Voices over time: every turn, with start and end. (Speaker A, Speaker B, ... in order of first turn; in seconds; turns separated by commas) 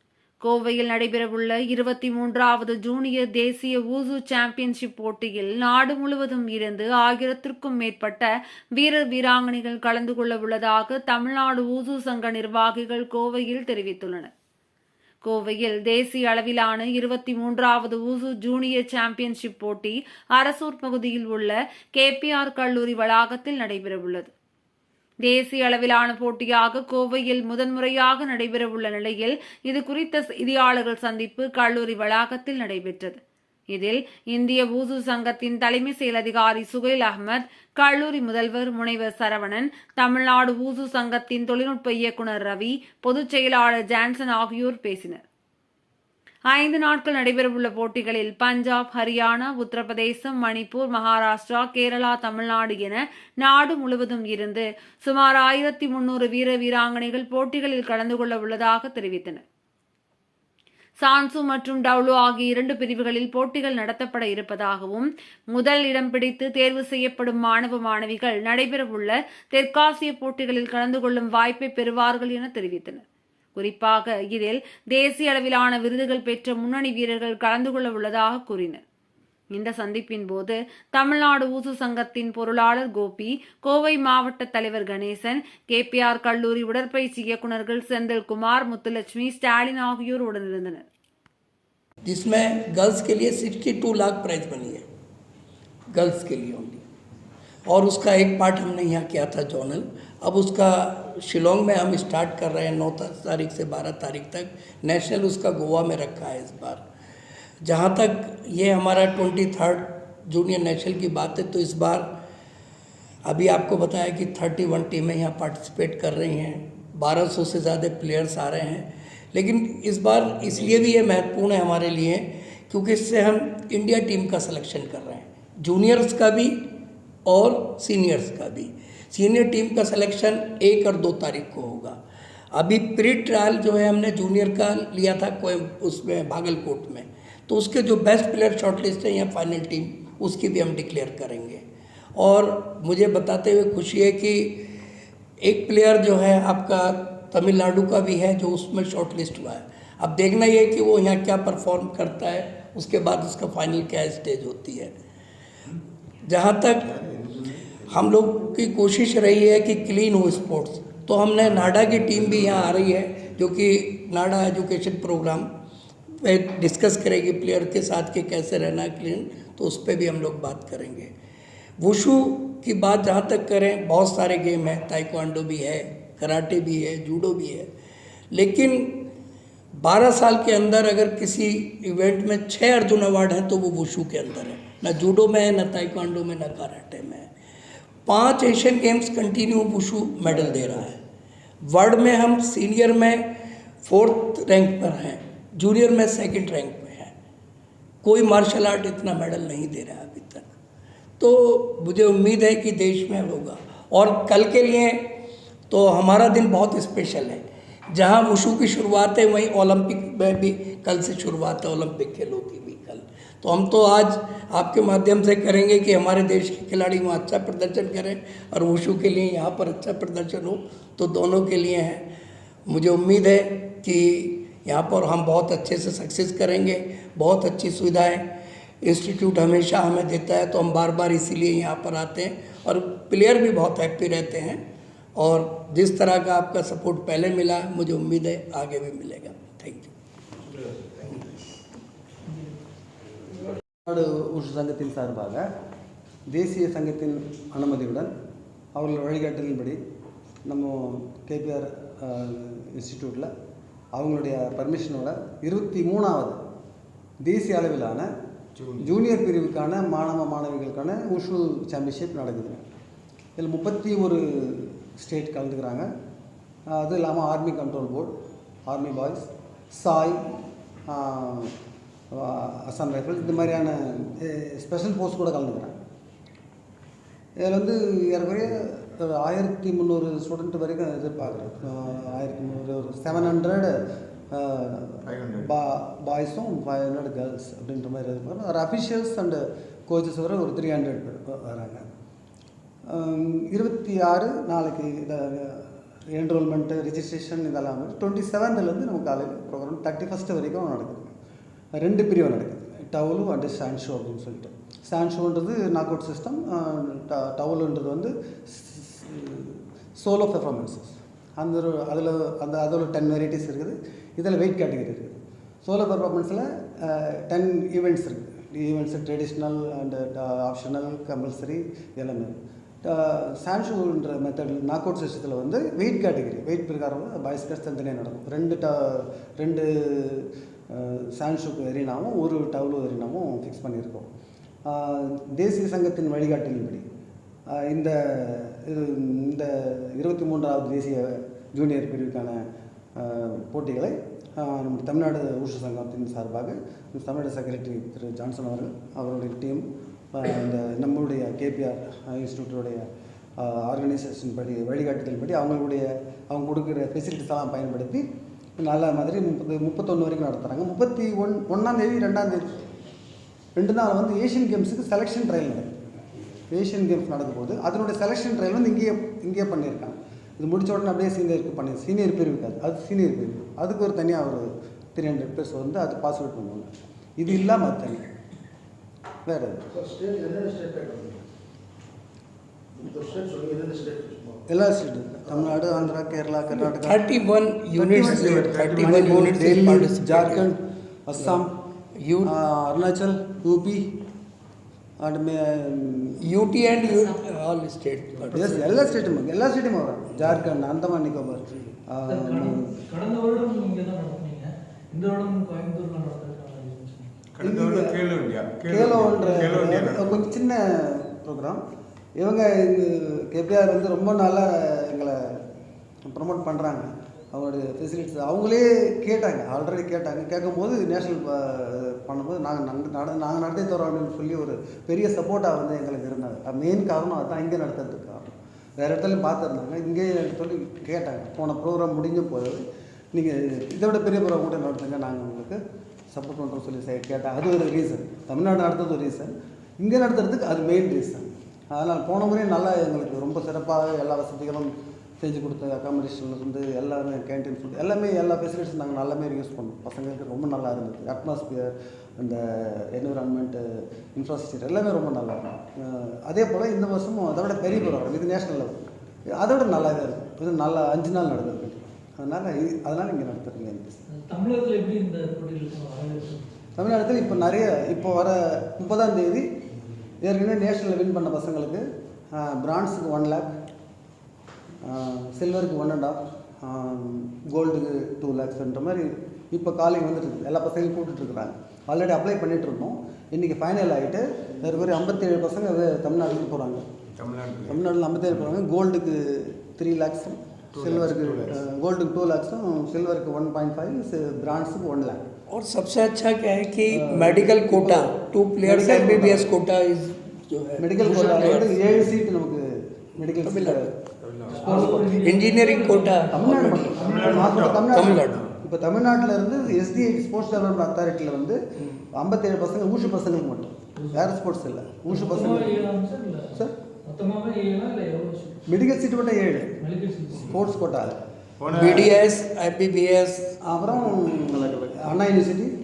Speaker A: 0.4-14.3, Speaker A: 15.2-24.3, Speaker A: 25.2-33.2, Speaker A: 33.7-45.2, Speaker A: 46.5-59.4, Speaker A: 61.0-73.0, Speaker A: 73.5-78.8, Speaker A: 79.5-90.8, Speaker B: 92.0-94.9, Speaker B: 95.9-96.8, Speaker B: 97.7-106.8, Speaker B: 107.6-112.1, Speaker B: 113.2-126.6, Speaker B: 127.3-132.0, Speaker B: 132.5-141.6, Speaker B: 142.2-144.6, Speaker B: 145.4-154.9, Speaker B: 156.3-156.9, Speaker C: 156.9-157.9, Speaker B: 157.9-165.5, Speaker C: 162.1-162.9, Speaker B: 166.2-171.1, Speaker B: 171.8-177.7, Speaker B: 178.3-179.0, Speaker B: 179.8-187.3, Speaker B: 188.1-191.0, Speaker D: 190.2-190.9, Speaker B: 191.7-193.3, Speaker B: 193.8-197.1, Speaker B: 198.0-200.4, Speaker B: 201.2-205.0, Speaker B: 205.7-222.0, Speaker B: 222.7-228.2, Speaker B: 228.8-234.6, Speaker B: 235.2-239.9, Speaker D: 243.9-245.4, Speaker D: 246.3-248.1, Speaker D: 248.8-249.8, Speaker D: 250.5-253.3, Speaker D: 253.9-256.4, Speaker D: 257.2-258.1, Speaker C: 258.6-258.9, Speaker D: 258.8-262.6, Speaker D: 263.4-265.9, Speaker D: 266.7-268.1, Speaker D: 268.7-270.2, Speaker D: 270.9-271.5, Speaker D: 272.1-275.7, Speaker D: 277.4-291.9, Speaker C: 285.1-285.5, Speaker D: 292.9-301.1, Speaker D: 301.8-334.1, Speaker D: 334.7-336.9, Speaker D: 337.6-342.4, Speaker D: 343.0-352.9, Speaker D: 353.4-358.1, Speaker D: 358.6-362.6, Speaker D: 363.6-365.7, Speaker D: 366.5-378.0, Speaker D: 379.3-379.6, Speaker E: 379.8-381.2, Speaker E: 382.8-384.4, Speaker D: 384.5-387.0, Speaker B: 386.6-390.5, Speaker D: 387.8-391.6, Speaker C: 388.0-389.3, Speaker B: 392.0-392.4, Speaker D: 392.3-393.9, Speaker D: 395.0-396.2, Speaker B: 396.2-399.2, Speaker D: 398.3-402.7, Speaker F: 402.1-407.2, Speaker C: 407.4-410.2, Speaker D: 407.4-407.9, Speaker D: 408.7-411.6, Speaker D: 412.2-415.2, Speaker D: 416.1-432.6, Speaker D: 433.1-435.6, Speaker D: 436.1-453.6, Speaker D: 454.1-458.8, Speaker D: 459.4-464.0, Speaker F: 464.1-466.5, Speaker D: 466.8-469.5, Speaker D: 470.2-473.5, Speaker D: 474.8-486.8, Speaker C: 487.2-488.4, Speaker D: 487.7-495.2, Speaker C: 490.7-491.6, Speaker B: 495.5-501.9, Speaker D: 496.9-499.5, Speaker D: 500.8-503.9, Speaker B: 503.3-503.9, Speaker C: 504.2-504.7, Speaker F: 504.5-507.8, Speaker D: 504.5-505.3, Speaker B: 504.7-507.0, Speaker D: 506.3-511.6, Speaker C: 507.0-508.5, Speaker B: 507.9-508.4, Speaker D: 512.1-515.9, Speaker F: 514.0-514.4, Speaker F: 515.1-518.6, Speaker D: 518.7-519.7, Speaker F: 519.8-520.6, Speaker D: 520.4-521.2, Speaker C: 521.6-522.1, Speaker B: 521.7-523.6, Speaker D: 523.7-525.7